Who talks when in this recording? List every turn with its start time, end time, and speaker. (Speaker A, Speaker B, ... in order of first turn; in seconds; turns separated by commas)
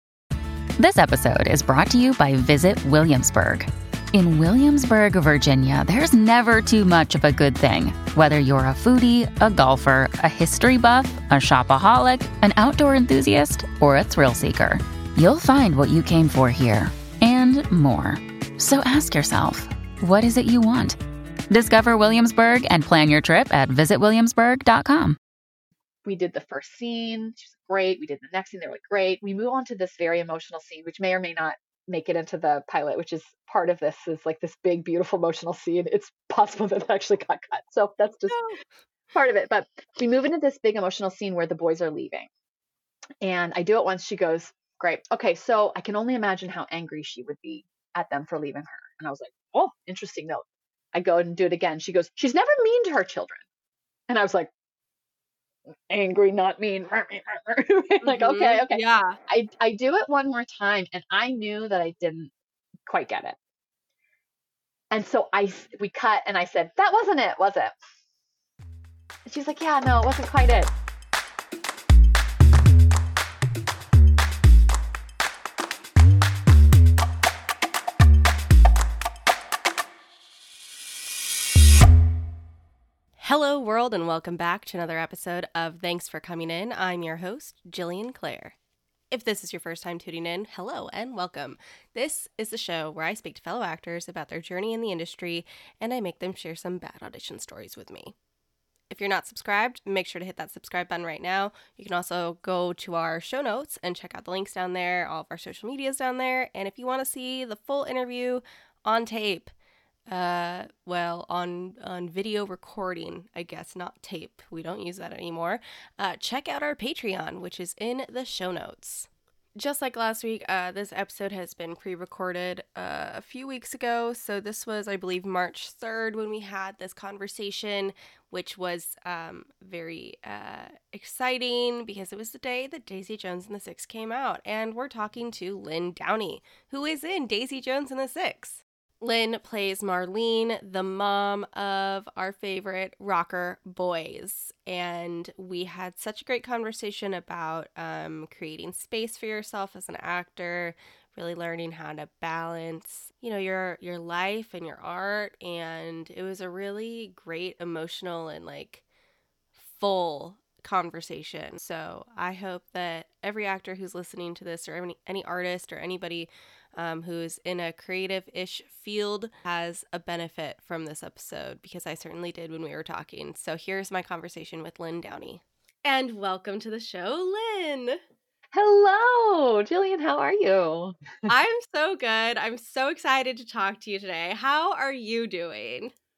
Speaker A: 0.8-21.0, Speaker A: 21.5-25.2, Speaker B: 26.0-38.4, Speaker C: 38.3-38.6, Speaker B: 39.1-42.3, Speaker B: 43.2-53.4, Speaker B: 54.1-54.5, Speaker B: 55.9-62.3, Speaker C: 58.0-59.2, Speaker B: 62.9-63.4, Speaker B: 64.9-67.7, Speaker B: 69.2-70.7, Speaker C: 83.2-88.5, Speaker C: 89.1-98.1, Speaker C: 98.9-109.5, Speaker C: 110.1-158.8, Speaker C: 159.6-178.0, Speaker B: 178.5-181.3, Speaker C: 181.3-185.9